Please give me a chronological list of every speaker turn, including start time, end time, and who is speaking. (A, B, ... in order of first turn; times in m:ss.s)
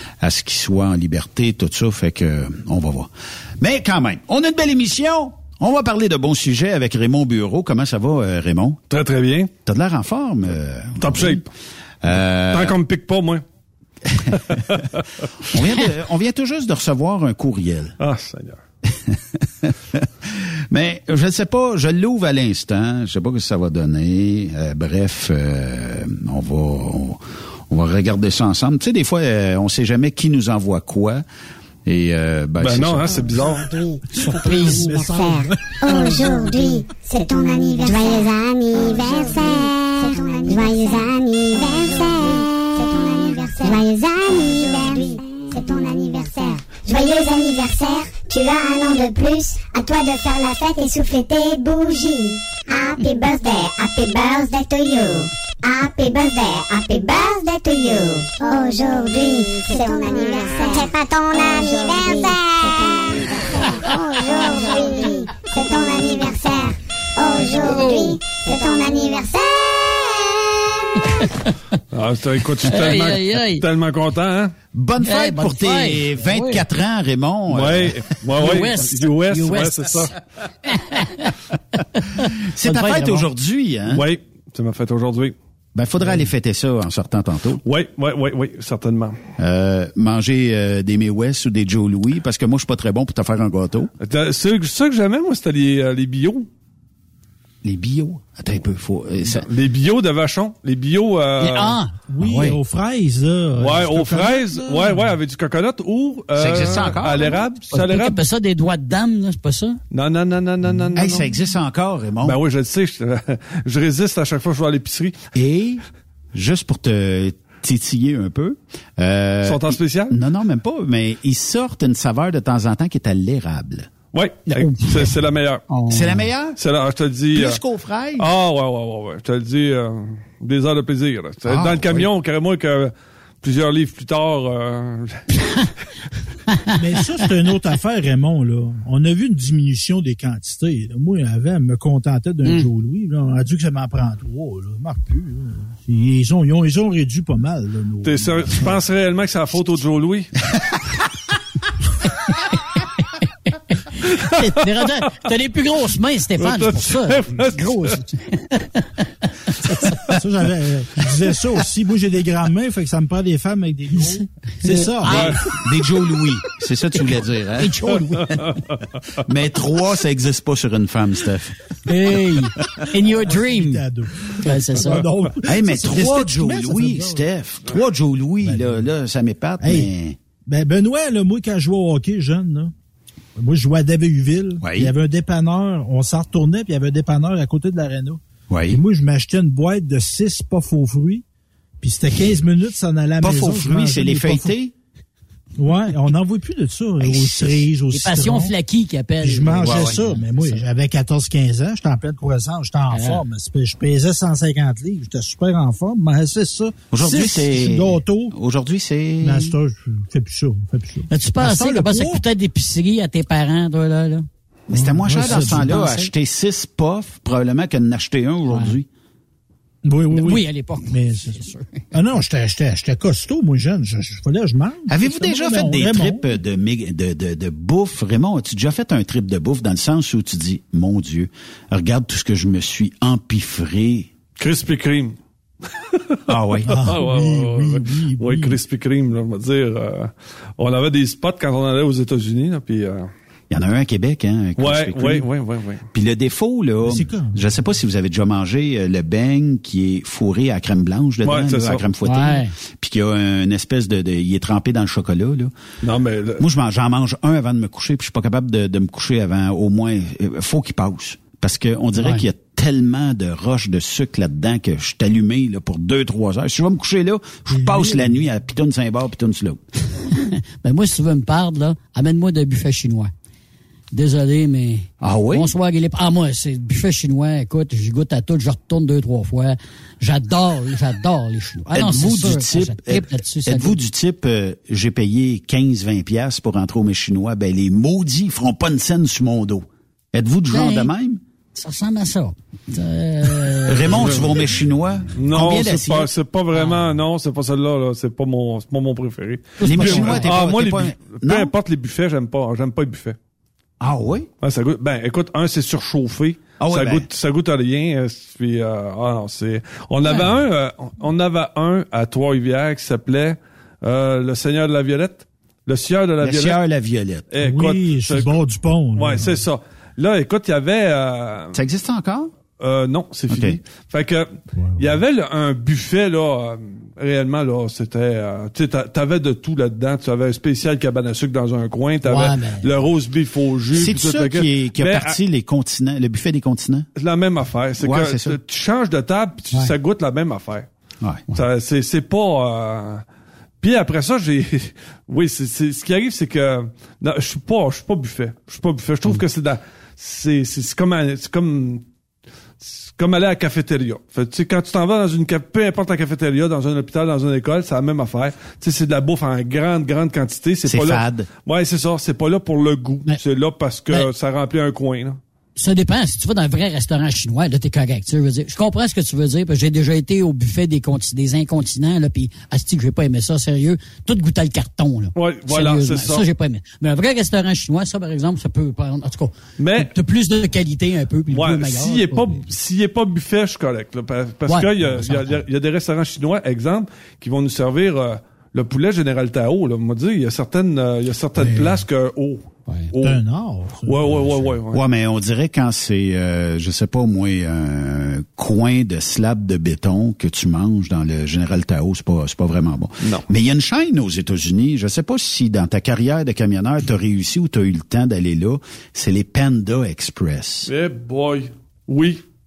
0:00.2-0:08.8 A
0:08.9-0:09.5 B
0:09.6-0:11.4 A
0:11.0-0:11.5 B
0:12.0-0:12.7 A
0:12.5-0:13.4 B
0:14.2-0:15.2 B
0:15.4-0:18.0 A
0:18.0-0:18.6 B
0:18.9-0:31.2 A
0:31.8-0:33.3 A
0:32.6-0:33.6 B
0:33.4-1:10.3 C
0:34.1-0:35.4 D
1:04.2-1:05.1 D
1:07.3-1:08.2 D
1:11.1-1:11.5 D
1:11.9-1:14.5 B
1:12.7-1:13.6 D
1:14.7-1:18.0 A
1:15.0-1:16.6 D
1:17.5-1:20.1 B
1:18.4-1:20.1 D
1:20.7-1:21.3 D
1:21.9-1:23.3 D
1:22.5-1:24.0 A
1:23.9-1:25.3 B
1:25.7-1:27.6 A
1:27.6-1:29.2 B
1:29.4-1:33.9 A
1:34.0-1:36.5 B
1:37.6-1:39.5 A
1:39.2-1:41.8 B
1:41.4-1:42.5 D
1:42.1-1:45.0 E
1:42.2-1:42.6 A
1:43.6-1:48.2 B
1:46.4-1:47.4 A
1:47.7-1:49.8 D
1:49.9-1:51.3 B
1:50.9-1:52.4 A
1:52.2-1:55.2 B
1:55.3-2:03.9 A
1:59.4-2:00.2 B
2:04.1-2:05.6 B
2:04.5-2:05.1 D
2:05.7-2:06.3 D
2:05.9-2:06.6 A
2:06.6-2:07.6 B
2:07.3-2:08.3 A
2:08.2-2:15.7 B
2:11.5-2:12.1 A
2:16.7-2:28.6 E
2:28.0-2:30.3 B
2:33.2-2:40.0 D
2:34.1-2:34.5 B
2:36.4-2:38.0 B
2:40.1-2:45.4 E
2:43.9-2:45.6 D
2:45.1-2:47.7 A
2:45.1-2:45.4 B
2:47.6-2:48.5 D
2:48.2-2:48.8 B
2:49.2-2:51.6 A
2:51.8-2:53.8 D
2:52.8-2:57.2 E
2:54.4-2:55.0 D
2:55.4-3:00.2 A
2:59.6-2:59.9 E
3:00.5-3:02.7 E
3:03.4-3:11.2 E
3:04.6-3:04.9 A
3:08.5-3:08.8 A
3:11.8-3:14.5 E
3:13.2-3:14.7 A
3:15.6-3:18.5 E
3:17.0-3:17.7 A
3:17.9-3:20.6 D
3:19.2-3:28.3 E
3:19.6-3:20.0 A
3:22.9-3:23.2 D
3:26.9-3:29.6 A
3:29.2-3:32.2 E
3:31.1-3:34.2 D
3:34.7-3:38.9 A
3:34.7-3:35.8 E
3:35.1-3:36.1 D
3:38.5-3:38.7 D
3:39.8-3:46.2 E
3:40.1-3:41.8 D
3:44.9-3:54.1 A
3:54.4-3:55.2 B
3:55.9-4:03.1 B
3:56.3-3:57.0 A
3:56.7-3:58.6 E
4:03.5-4:05.2 A
4:04.6-4:05.8 B
4:05.9-4:15.5 A
4:06.8-4:07.4 E
4:11.2-4:11.8 B
4:12.0-4:12.5 D
4:15.8-4:16.4 B
4:16.4-4:29.6 A
4:22.0-4:22.2 D
4:27.5-4:28.1 E
4:30.1-4:33.1 D
4:33.9-4:43.8 D
4:35.0-4:35.5 A
4:41.7-4:51.2 A
4:50.5-4:50.9 D
4:51.5-4:54.3 D
4:53.7-4:56.1 A
4:55.2-5:03.2 B
4:59.6-5:00.3 D
4:59.6-5:01.5 A
5:03.8-5:04.3 A
5:04.4-5:16.6 B
5:06.6-5:07.1 A
5:16.2-5:17.2 A
5:17.3-5:18.4 B
5:17.4-5:19.4 E
5:18.9-5:21.6 B
5:21.5-5:22.3 A
5:22.6-5:35.2 B
5:23.3-5:23.6 A
5:24.6-5:24.9 E
5:32.0-5:32.7 D
5:33.7-5:36.9 A
5:37.0-5:40.7 B
5:37.8-5:38.4 A
5:41.3-5:43.0 B
5:43.6-5:51.8 B
5:52.6-6:05.2 B
6:00.6-6:01.3 A
6:05.6-6:22.4 D
6:15.2-6:16.2 B
6:19.6-6:19.9 B
6:21.3-6:33.2 B
6:24.5-6:25.4 D
6:31.4-6:31.8 E
6:33.0-6:34.6 E
6:33.8-6:34.8 B
6:34.7-6:50.7 A
6:50.6-6:52.2 B